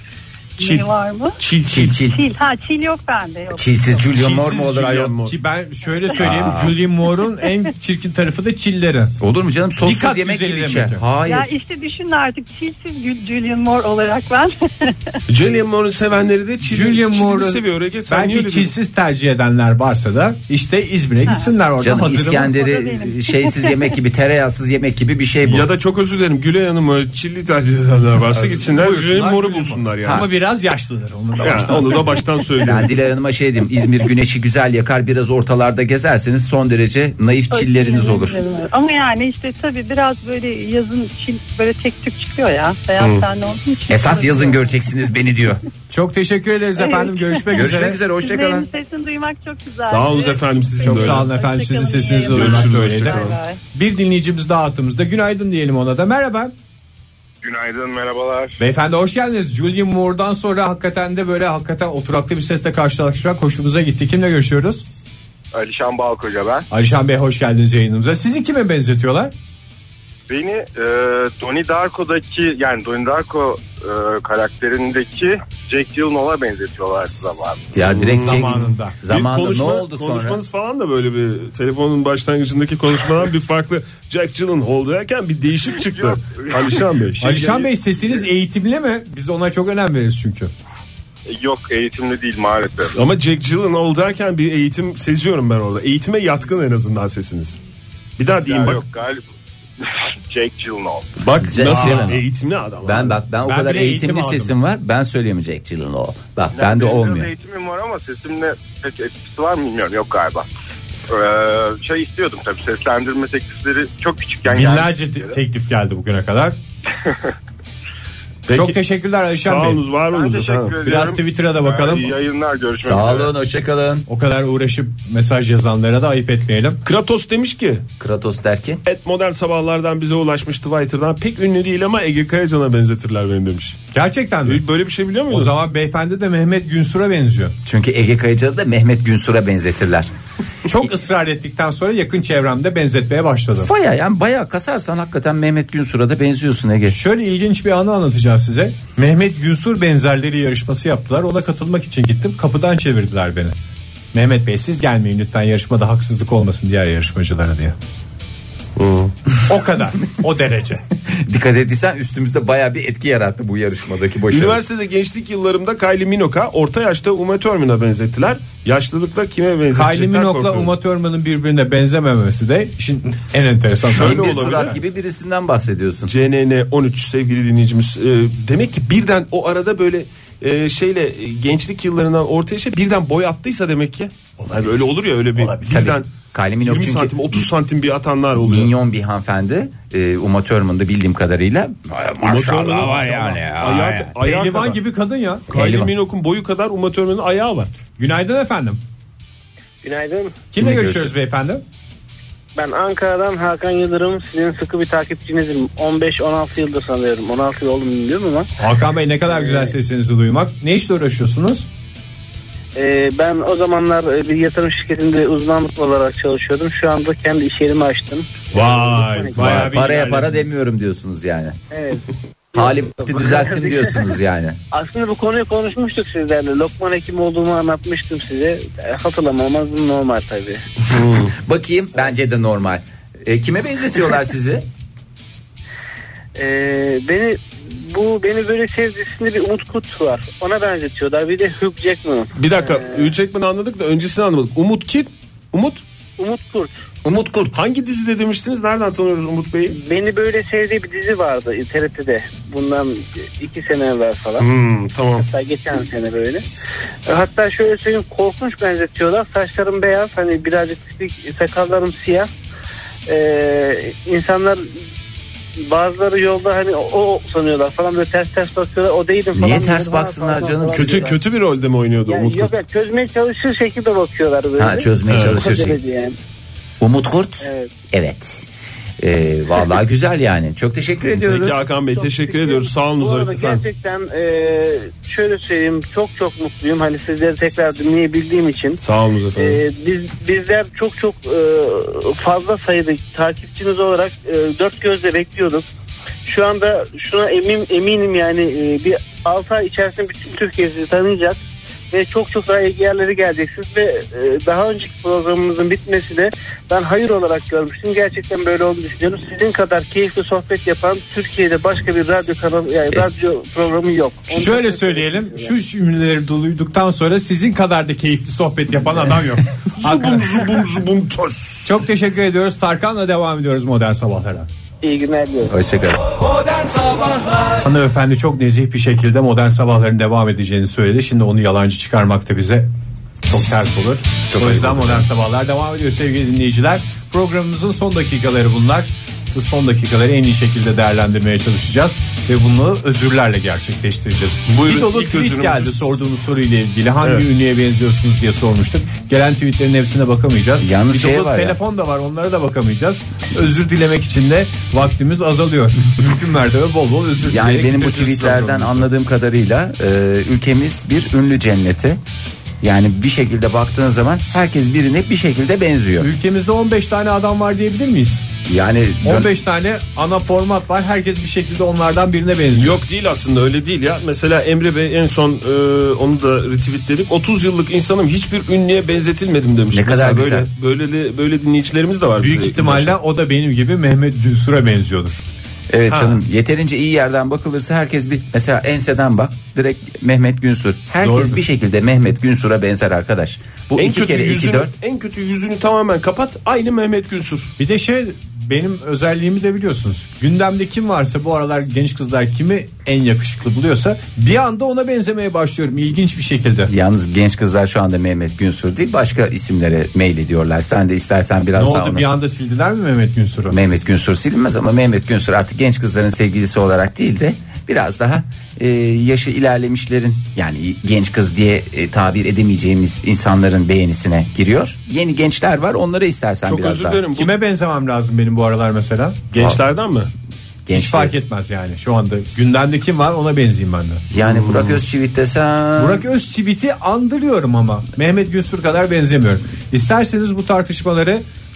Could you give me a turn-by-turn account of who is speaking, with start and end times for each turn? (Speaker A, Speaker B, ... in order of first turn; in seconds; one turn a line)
Speaker A: 0.6-1.4
Speaker B: 0.6-2.0
Speaker C: 1.6-2.2
Speaker A: 2.0-3.8
Speaker C: 3.5-5.0
Speaker B: 4.2-5.4
Speaker D: 4.2-9.1
Speaker C: 6.2-6.8
Speaker C: 9.2-11.5
Speaker D: 9.8-11.0
Speaker A: 11.2-14.9
Speaker B: 15.3-18.8
Speaker D: 16.6-22.5
Speaker A: 21.3-21.5
Speaker C: 21.8-25.6
Speaker A: 22.4-24.0
Speaker B: 25.4-30.2
Speaker D: 28.3-32.2
Speaker B: 31.4-32.9
Speaker C: 32.6-38.4
Speaker A: 37.5-44.8
Speaker B: 43.0-43.2
Speaker C: 43.9-45.6
Speaker D: 45.9-48.0
Speaker A: 46.8-53.6
Speaker C: 47.5-48.7
Speaker B: 49.8-51.3
Speaker D: 50.8-56.5
Speaker B: 52.3-53.4
Speaker E: 57.4-58.5
Speaker D: 58.6-64.8
Speaker E: 65.5-66.7
Speaker D: 66.7-69.3
Speaker E: 70.3-77.7
Speaker C: 77.7-80.4
Speaker B: 77.8-87.3
Speaker D: 78.1-79.0
Speaker E: 85.8-88.2
Speaker D: 87.2-90.5
Speaker E: 91.3-93.0
Speaker B: 92.9-97.6
Speaker B: 98.2-98.8
Speaker E: 98.5-99.2
Speaker E: 99.8-101.1
Speaker B: 101.2-103.2
Speaker C: 101.4-102.2
Speaker D: 101.6-102.2
Speaker C: 102.8-107.3
Speaker D: 103.4-104.5
Speaker E: 106.5-110.5
Speaker E: 111.1-115.4
Speaker D: 114.5-116.6
Speaker B: 118.5-120.8
Speaker D: 118.5-119.8
Speaker E: 120.1-123.3
Speaker D: 120.8-122.1
Speaker C: 122.8-124.1
Speaker D: 124.1-126.8
Speaker B: 126.8-127.8
Speaker C: 128.0-128.8
Speaker B: 128.8-133.8
Speaker D: 133.9-134.6
Speaker B: 134.4-135.5
Speaker D: 135.3-137.6
Speaker C: 137.6-140.1
Speaker D: 140.7-143.7
Speaker C: 143.6-147.0
Speaker D: 146.9-153.5
Speaker D: 154.1-157.8
Speaker B: 158.8-159.1
Speaker D: 159.4-160.8
Speaker C: 161.1-164.6
Speaker B: 164.3-170.7
Speaker D: 169.7-174.8
Speaker B: 173.8-174.8
Speaker C: 173.8-176.1
Speaker B: 176.1-188.7
Speaker D: 184.4-184.8
Speaker C: 185.6-187.4
Speaker C: 188.4-194.1
Speaker B: 192.2-194.8
Speaker D: 194.2-195.4
Speaker B: 195.5-197.7
Speaker C: 195.5-195.9
Speaker D: 198.0-198.8
Speaker F: 199.8-200.4
Speaker D: 200.5-201.6
Speaker C: 200.6-201.1
Speaker F: 202.6-208.5
Speaker D: 208.6-211.7
Speaker F: 209.3-209.7
Speaker F: 212.7-219.6
Speaker D: 218.5-220.5
Speaker C: 219.3-221.6
Speaker F: 221.7-222.0
Speaker F: 222.5-224.1
Speaker C: 222.5-224.6
Speaker F: 224.7-230.6
Speaker B: 230.9-231.3
Speaker C: 231.3-234.7
Speaker F: 236.3-243.1
Speaker B: 242.3-245.8
Speaker F: 246.2-246.7
Speaker C: 247.0-247.6
Speaker B: 247.5-249.8
Speaker F: 249.7-254.5
Speaker B: 254.4-255.3
Speaker F: 255.2-256.4
Speaker F: 257.1-262.3
Speaker F: 263.1-264.7
Speaker F: 265.6-271.2
Speaker C: 269.3-271.1
Speaker B: 270.7-272.5
Speaker F: 272.1-276.2
Speaker C: 274.6-275.8
Speaker B: 275.1-275.6
Speaker C: 276.8-281.6
Speaker F: 277.4-277.7
Speaker B: 281.1-283.6
Speaker F: 281.9-288.8
Speaker B: 288.8-289.6
Speaker F: 289.4-295.6
Speaker F: 296.2-301.4
Speaker F: 301.9-315.5
Speaker D: 314.3-320.6
Speaker B: 319.8-321.8
Speaker D: 321.6-324.5
Speaker F: 324.8-325.6
Speaker C: 325.4-327.2
Speaker D: 327.6-332.7
Speaker D: 333.3-358.9
Speaker C: 334.3-335.0
Speaker B: 344.5-345.8
Speaker B: 347.0-347.3
Speaker C: 350.6-351.6
Speaker C: 357.2-362.0
Speaker C: 362.6-366.1
Speaker D: 366.0-368.2
Speaker C: 368.5-369.3
Speaker D: 369.0-372.8
Speaker B: 372.5-382.9
Speaker C: 379.7-380.5
Speaker D: 382.2-385.2
Speaker C: 385.7-394.7
Speaker B: 385.9-386.2
Speaker D: 391.0-391.4
Speaker B: 393.7-397.5
Speaker D: 397.6-406.7
Speaker C: 406.7-412.1
Speaker D: 411.5-413.6
Speaker C: 413.5-427.0
Speaker B: 426.4-427.3
Speaker D: 427.1-429.2
Speaker B: 429.3-430.1
Speaker C: 430.6-431.1
Speaker D: 430.7-434.1
Speaker C: 434.1-436.0
Speaker B: 434.1-434.8
Speaker D: 435.8-441.2